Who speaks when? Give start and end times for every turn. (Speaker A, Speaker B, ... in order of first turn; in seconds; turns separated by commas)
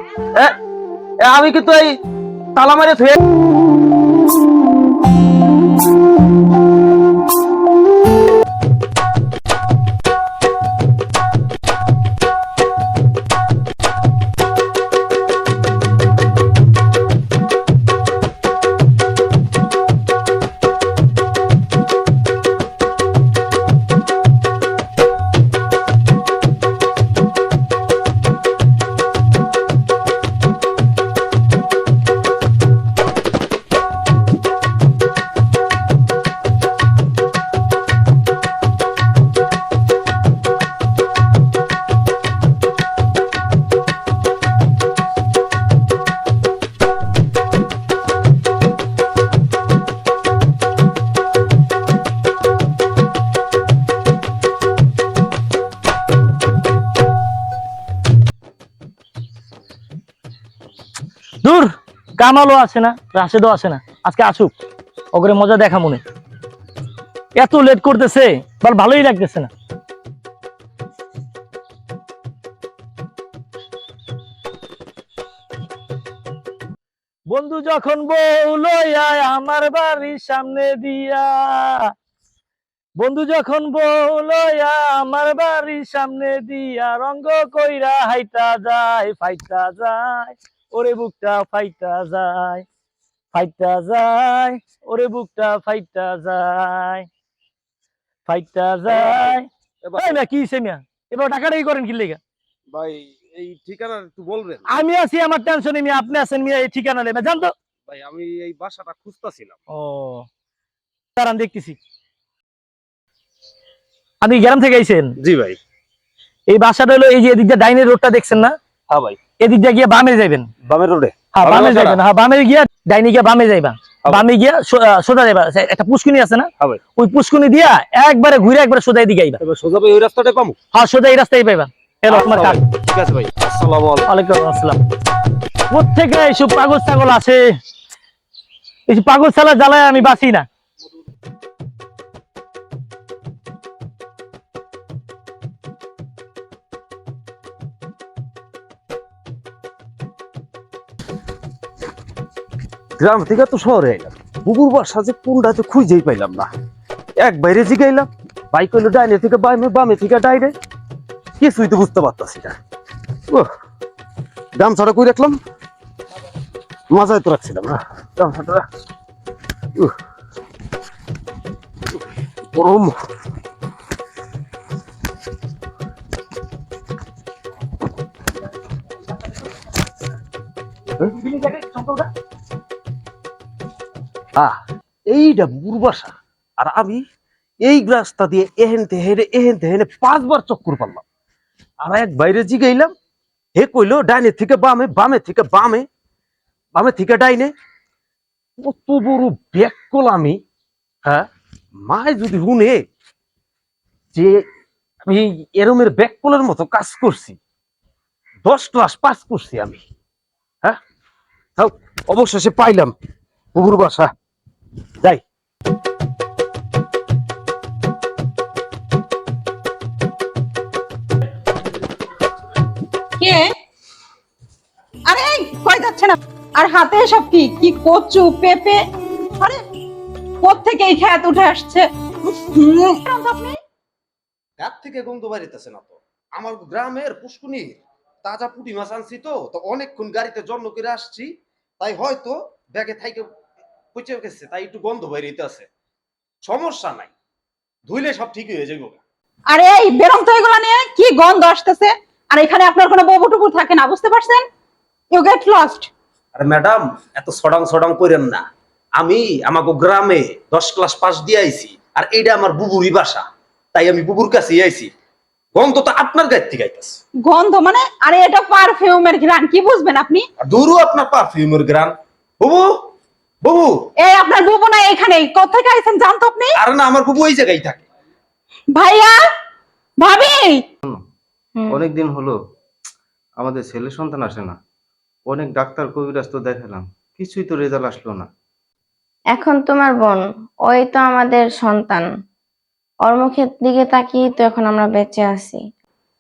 Speaker A: 1.2-2.0, Speaker A: 2.5-3.2, Speaker B: 61.4-64.5, Speaker B: 65.1-66.0, Speaker B: 67.4-69.5, Speaker B: 77.3-81.8, Speaker B: 83.0-92.7, Speaker B: 93.3-97.1, Speaker B: 98.3-102.2, Speaker A: 98.9-100.2, Speaker A: 102.7-104.8, Speaker B: 104.7-107.5, Speaker A: 107.9-109.6, Speaker B: 109.7-110.3, Speaker B: 111.2-111.8, Speaker B: 114.2-115.1, Speaker A: 115.2-115.6, Speaker B: 116.5-118.6, Speaker A: 118.9-119.2, Speaker B: 119.4-120.5, Speaker A: 120.7-122.0, Speaker B: 121.3-129.4, Speaker A: 129.4-130.6, Speaker B: 130.7-132.6, Speaker A: 132.1-134.1, Speaker B: 134.1-134.8, Speaker B: 135.7-137.4, Speaker B: 138.9-140.5, Speaker A: 153.0-156.5, Speaker A: 157.2-160.6, Speaker A: 161.4-162.6, Speaker A: 164.6-165.4, Speaker A: 166.9-168.7, Speaker A: 172.5-173.0, Speaker A: 181.0-182.1, Speaker A: 184.4-187.0, Speaker A: 187.6-191.0, Speaker A: 191.8-192.9, Speaker A: 193.6-195.9, Speaker A: 196.7-197.5, Speaker A: 198.6-200.4, Speaker A: 201.0-202.8, Speaker A: 204.1-204.4, Speaker A: 205.1-207.4, Speaker A: 208.4-209.8, Speaker A: 211.6-212.9, Speaker A: 213.5-214.1, Speaker C: 223.2-223.5, Speaker C: 225.1-228.8, Speaker C: 230.4-233.6, Speaker A: 234.6-243.3, Speaker A: 243.9-245.7, Speaker A: 246.4-247.1, Speaker A: 247.9-249.0, Speaker C: 249.5-254.5, Speaker C: 255.1-255.9, Speaker A: 256.4-264.9, Speaker A: 265.5-267.0, Speaker C: 267.2-270.2, Speaker A: 270.4-272.7, Speaker A: 273.4-273.8, Speaker C: 274.0-276.5, Speaker A: 276.6-277.8, Speaker C: 278.7-279.2, Speaker C: 280.0-280.6, Speaker D: 281.6-281.8, Speaker E: 281.7-282.4, Speaker E: 283.4-284.6, Speaker E: 285.3-288.3, Speaker D: 289.3-292.1, Speaker D: 293.1-295.6